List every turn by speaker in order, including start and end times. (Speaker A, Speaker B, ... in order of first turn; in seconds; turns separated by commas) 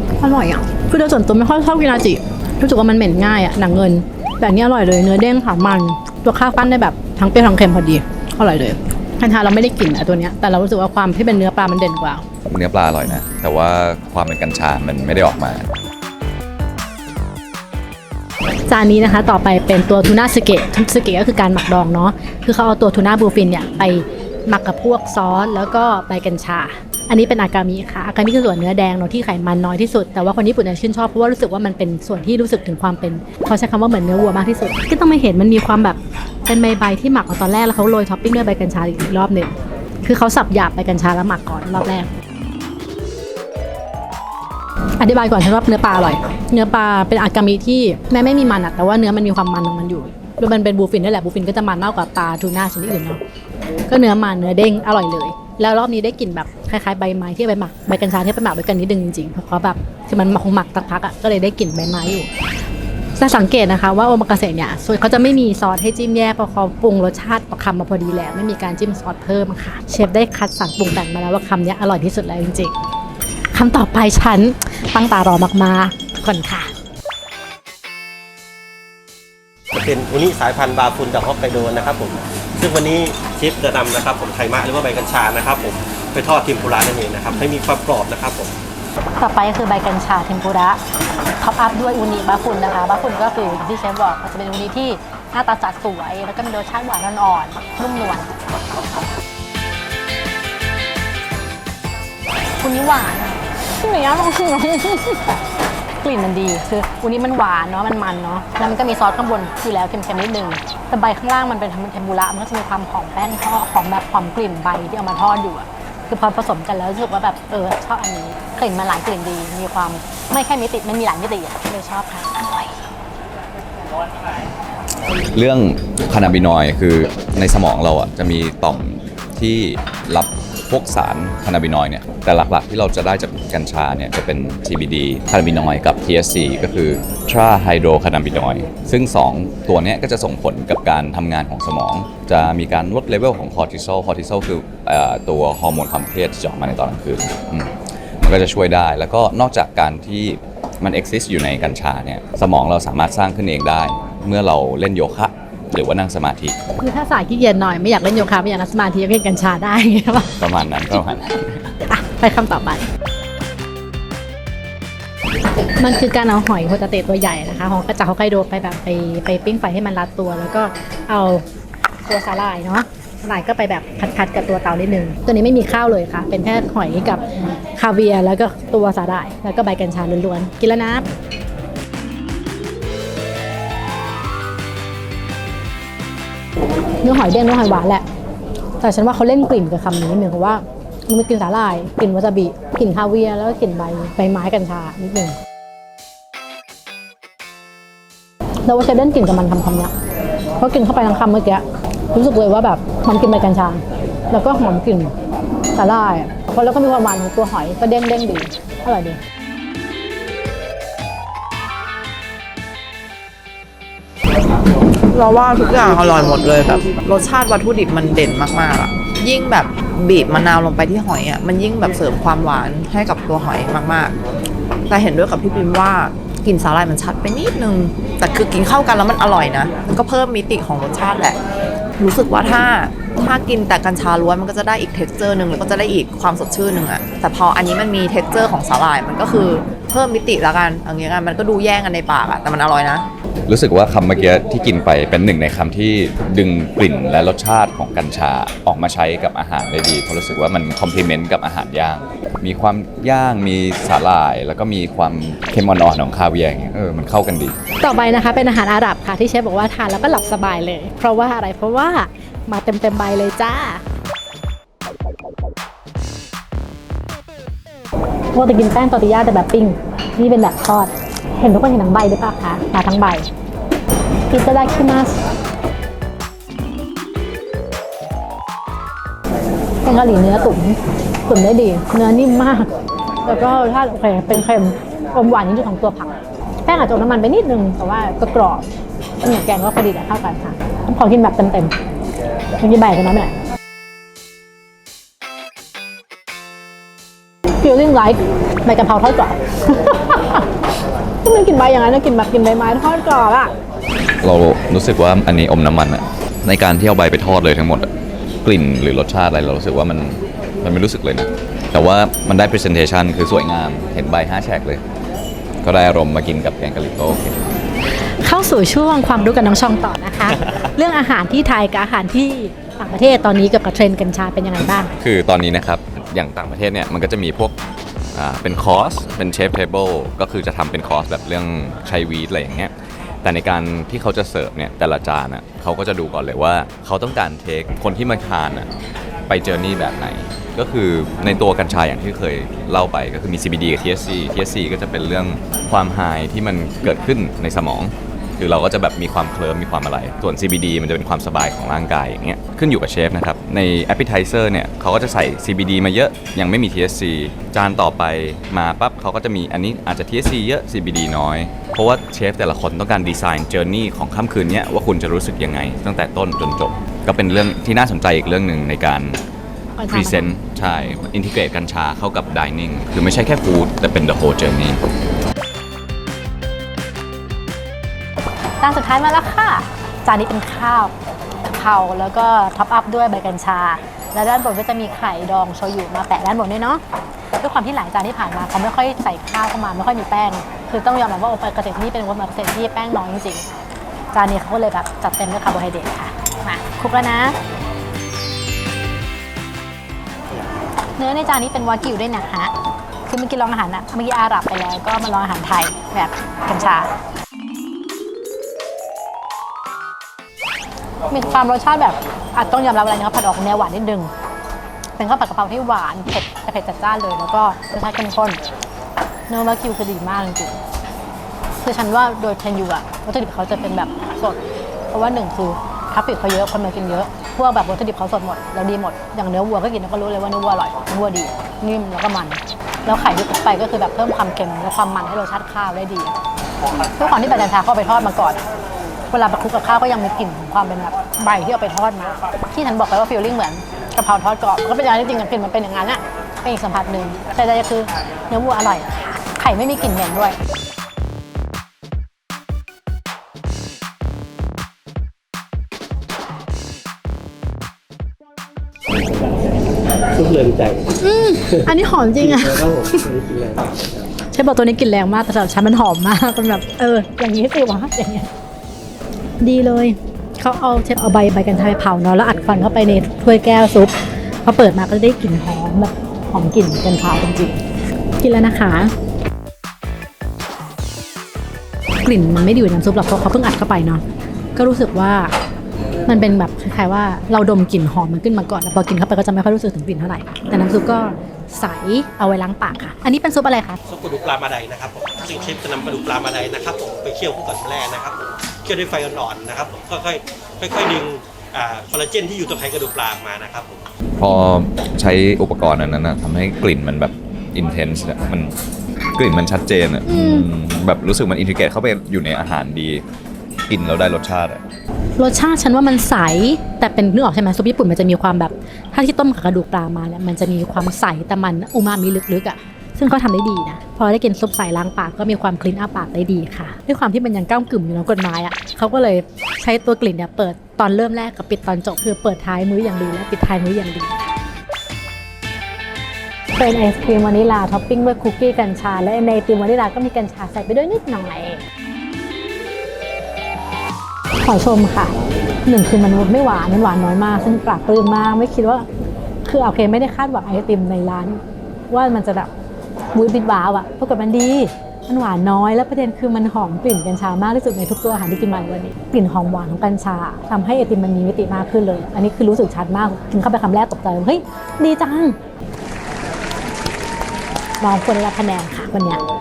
Speaker A: 0.2-12.2, Speaker B: 12.4-15.7, Speaker A: 18.7-42.1, Speaker A: 45.0-53.2, Speaker A: 53.9-62.3, Speaker A: 63.2-72.8, Speaker A: 73.5-76.7, Speaker C: 79.7-88.5, Speaker A: 89.2-90.8, Speaker A: 91.4-98.3, Speaker A: 102.6-105.4, Speaker A: 106.0-122.8, Speaker B: 125.3-156.6, Speaker A: 156.8-160.3, Speaker B: 160.4-161.7, Speaker A: 161.9-162.9, Speaker A: 165.8-171.4, Speaker A: 172.1-181.1, Speaker A: 187.0-188.0, Speaker A: 188.8-195.3, Speaker A: 198.6-199.9, Speaker A: 200.6-205.1, Speaker A: 205.7-209.2, Speaker D: 215.1-224.2, Speaker D: 224.9-231.4, Speaker D: 232.0-243.1, Speaker B: 243.5-257.6, Speaker A: 257.8-263.8, Speaker A: 268.3-273.3, Speaker A: 274.3-275.2, Speaker A: 279.8-282.7, Speaker A: 283.2-286.1, Speaker A: 286.6-288.6, Speaker A: 289.2-291.7, Speaker A: 292.6-293.3, Speaker A: 297.6-300.4, Speaker A: 301.2-303.5, Speaker B: 304.2-307.9, Speaker B: 308.4-314.8, Speaker B: 315.6-317.4, Speaker A: 317.9-324.9, Speaker B: 325.0-327.6, Speaker B: 328.1-338.7, Speaker B: 339.3-369.2, Speaker A: 369.8-370.4, Speaker B: 369.9-374.8, Speaker A: 378.6-386.8, Speaker A: 387.4-393.5, Speaker A: 394.1-397.4, Speaker A: 401.0-402.5, Speaker A: 403.1-406.9, Speaker A: 411.1-414.1, Speaker A: 415.0-418.4, Speaker A: 419.3-420.6, Speaker A: 421.6-436.2, Speaker A: 436.7-438.4, Speaker A: 439.1-450.4, Speaker C: 460.1-460.9, Speaker A: 461.0-463.1, Speaker C: 462.3-463.8, Speaker A: 464.3-468.3, Speaker A: 469.4-473.9, Speaker A: 474.4-477.6, Speaker A: 478.2-478.9, Speaker A: 482.0-484.0, Speaker A: 484.6-485.3, Speaker A: 486.1-493.8, Speaker C: 493.9-503.8, Speaker B: 504.2-508.5, Speaker B: 509.1-513.0, Speaker A: 510.1-510.5, Speaker B: 513.7-514.6, Speaker A: 515.2-534.4, Speaker A: 536.6-541.6, Speaker A: 544.4-548.9, Speaker A: 549.4-552.5, Speaker A: 553.1-565.4, Speaker A: 567.8-569.2